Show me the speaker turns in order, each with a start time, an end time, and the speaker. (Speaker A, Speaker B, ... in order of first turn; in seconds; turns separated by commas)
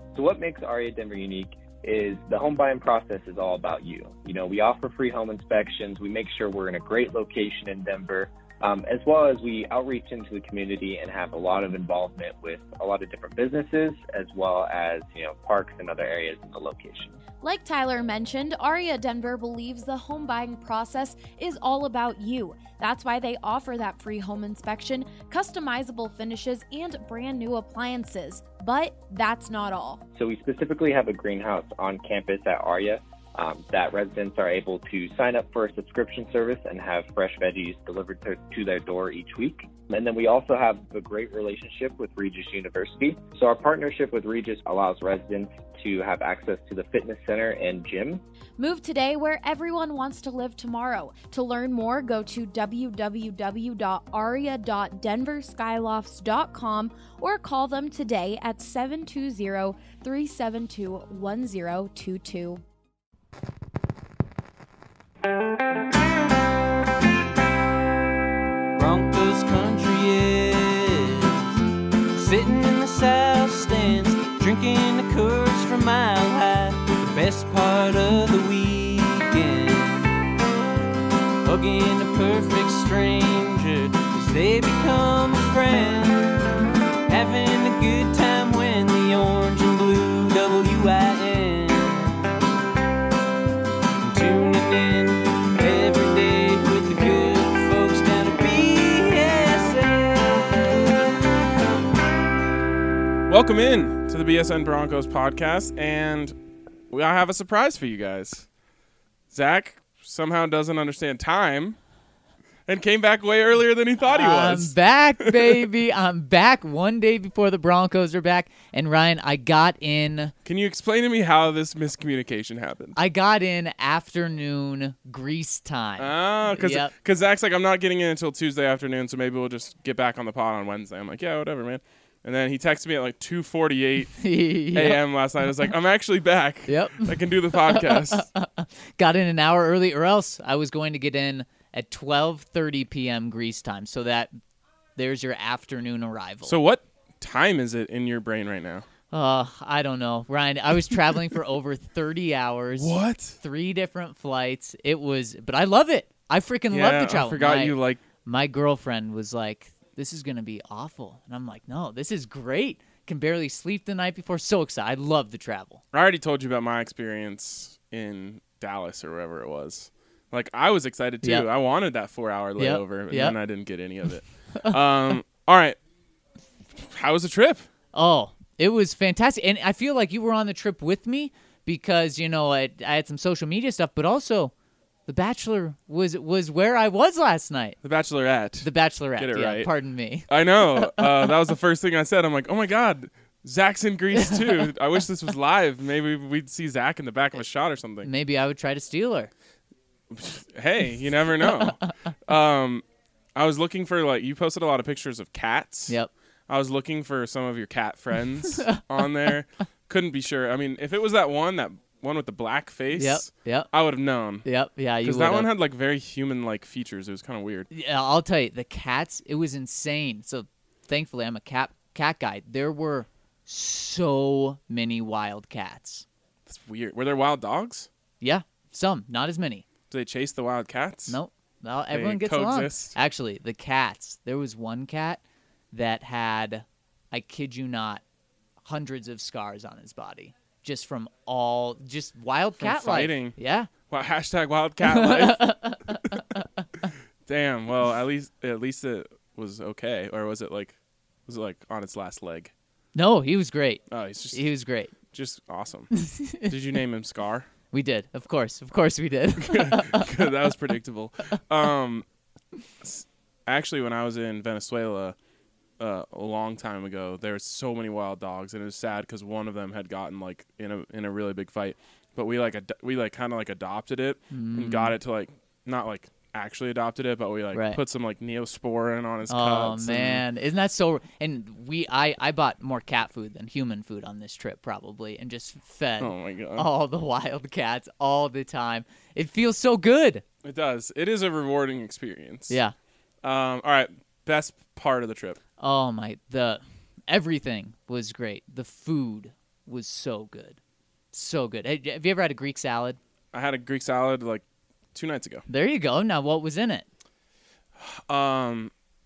Speaker A: 0.1-17.2, Speaker B: 17.4-30.0, Speaker A: 30.1-48.2, Speaker B: 48.6-62.6, Speaker C: 68.8-71.6, Speaker C: 72.1-80.2, Speaker C: 81.4-86.4, Speaker C: 87.1-92.3, Speaker C: 94.0-100.8, Speaker D: 103.3-106.3, Speaker D: 106.9-108.5, Speaker D: 109.3-111.8, Speaker D: 112.7-115.7, Speaker E: 114.1-120.3, Speaker D: 120.4-123.0, Speaker E: 123.0-126.9, Speaker D: 126.0-134.2, Speaker E: 134.2-135.0, Speaker D: 134.7-138.3, Speaker E: 136.7-144.3, Speaker E: 144.9-146.5, Speaker D: 146.4-148.8, Speaker E: 149.1-165.8, Speaker D: 152.7-153.4, Speaker D: 156.7-158.0, Speaker D: 165.9-175.8, Speaker E: 171.2-171.5, Speaker E: 172.6-173.4, Speaker D: 176.7-177.7, Speaker E: 177.9-184.5, Speaker E: 185.1-187.8, Speaker D: 187.8-189.7, Speaker E: 188.6-191.3, Speaker D: 190.3-198.1, Speaker E: 194.2-194.6, Speaker E: 198.0-199.3, Speaker D: 200.1-202.8, Speaker E: 201.5-201.8, Speaker D: 203.3-205.9, Speaker D: 206.5-214.4, Speaker E: 212.9-213.7, Speaker E: 214.4-215.5, Speaker D: 215.0-217.7, Speaker E: 217.7-226.1, Speaker D: 226.4-227.9, Speaker E: 228.2-229.7, Speaker D: 229.9-231.2, Speaker E: 231.1-235.2, Speaker D: 231.9-232.9, Speaker E: 235.7-238.0, Speaker E: 238.6-243.7, Speaker D: 242.6-243.4, Speaker D: 243.9-246.1, Speaker E: 244.8-246.6, Speaker D: 247.2-250.8, Speaker D: 251.3-252.5, Speaker E: 252.9-254.9, Speaker D: 253.9-254.4, Speaker D: 255.1-257.5, Speaker E: 255.9-256.5, Speaker E: 257.7-260.1, Speaker D: 259.4-262.1, Speaker D: 262.8-265.1, Speaker D: 265.8-280.2, Speaker E: 274.3-274.9, Speaker E: 277.5-277.8, Speaker E: 279.3-290.2, Speaker D: 286.0-286.6, Speaker D: 290.4-292.6, Speaker E: 292.5-292.8, Speaker D: 293.2-295.4, Speaker E: 295.6-300.6, Speaker E: 301.1-303.0, Speaker D: 303.3-305.4, Speaker E: 305.5-306.9, Speaker D: 307.8-308.7